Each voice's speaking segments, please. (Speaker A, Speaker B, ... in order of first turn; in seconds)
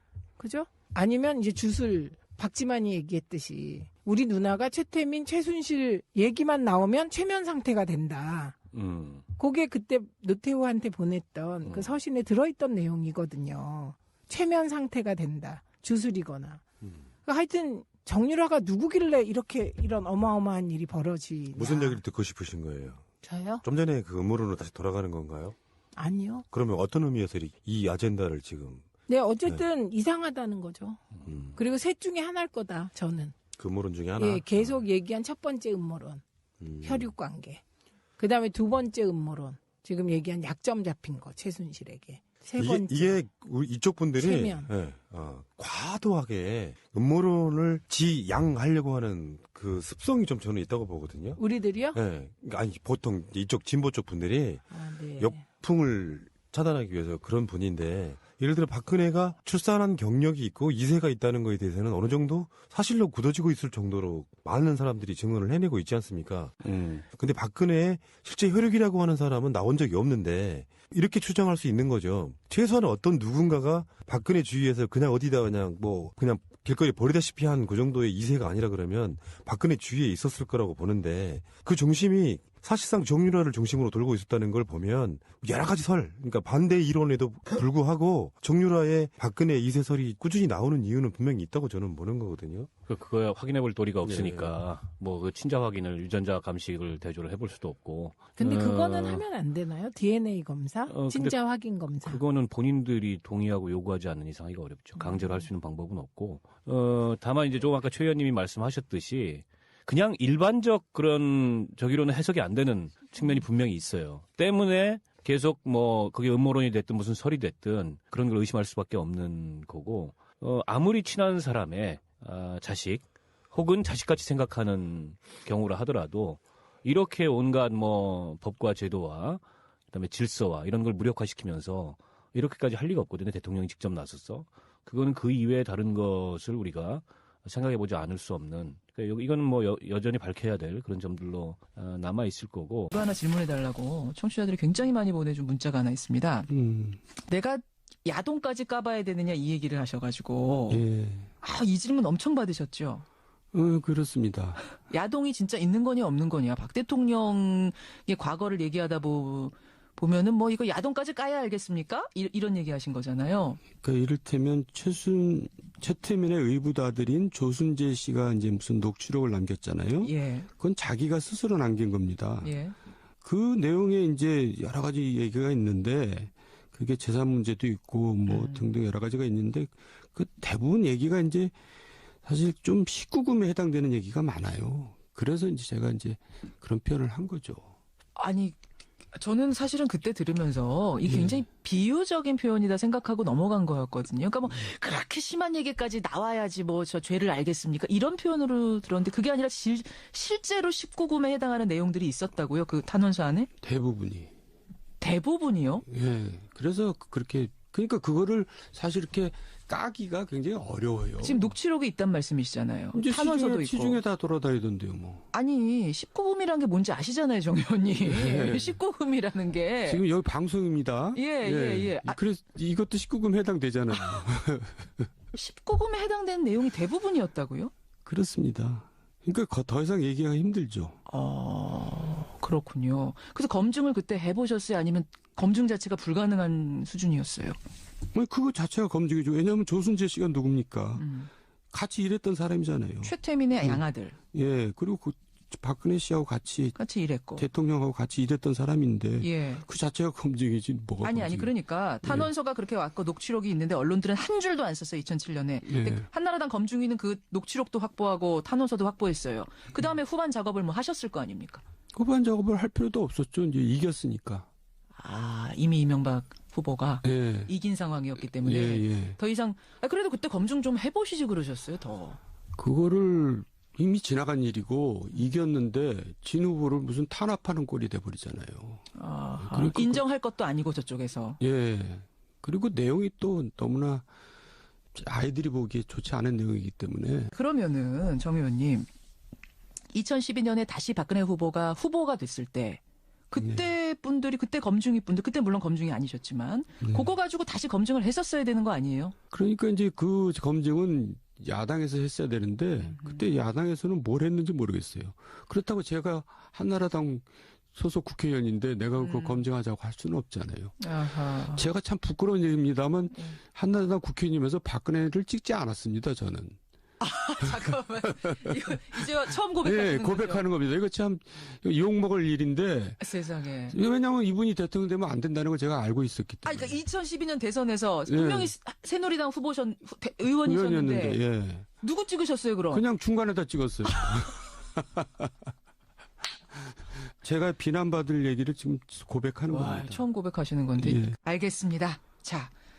Speaker A: 0.4-8.6, 9.4-16.6, 17.3-22.0, 23.2-23.6, 26.0-26.4, 29.1-31.0, 31.6-33.4, 34.2-36.2, 36.8-37.6, 38.2-43.2, 44.2-44.7, 51.4-52.0, 54.7-55.4, 98.4-102.2
Speaker B: 8.7-9.2, 11.6-12.0, 66.6-67.0, 92.9-99.2, 100.9-101.4, 102.0-142.9
Speaker C: 21.5-23.1, 23.6-25.6, 26.5-28.9, 31.3-31.6, 33.6-34.8, 36.6-37.1, 42.6-51.4, 51.9-54.6, 55.2-92.7, 94.0-94.6
Speaker D: 142.9-146.5, 147.2-150.8, 151.4-153.1, 154.8-163.7, 170.0-170.5, 172.4-172.8, 178.3-178.7, 188.2-188.6, 189.1-203.5, 205.0-205.9, 211.2-214.0, 215.3-220.0, 221.2-222.2, 224.0-224.2, 225.3-227.7, 231.1-237.6, 241.0-241.3, 243.0-244.2, 246.8-247.5, 249.2-249.7, 251.0-261.6, 265.0-272.2, 278.9-281.4, 287.3-288.9, 289.9-299.2, 302.8-303.3, 309.0-309.5, 310.8-311.7, 313.1-313.4, 317.0-320.4, 323.0-323.8, 326.4-331.2, 331.8-332.9, 333.9-334.3, 339.5-342.5
Speaker E: 146.5-147.0, 150.7-151.3, 153.5-154.7, 163.7-172.6, 173.2-181.5, 182.2-187.7, 191.0-191.4, 203.6-204.3, 205.9-211.5, 212.9-215.2, 218.0-218.8, 219.9-225.1, 228.1-231.0, 238.1-241.0, 241.7-246.8, 247.3-252.3, 255.7-256.1, 261.9-264.5, 267.0-267.5, 268.4-269.2, 272.6-278.8, 279.4-280.0, 281.4-284.1, 284.9-287.3, 293.4-293.6, 299.3-316.6, 317.4-319.0, 319.6-323.1, 323.7-326.8, 328.1-328.5, 330.4-331.7, 332.7-335.3, 337.2-340.0, 340.8-341.2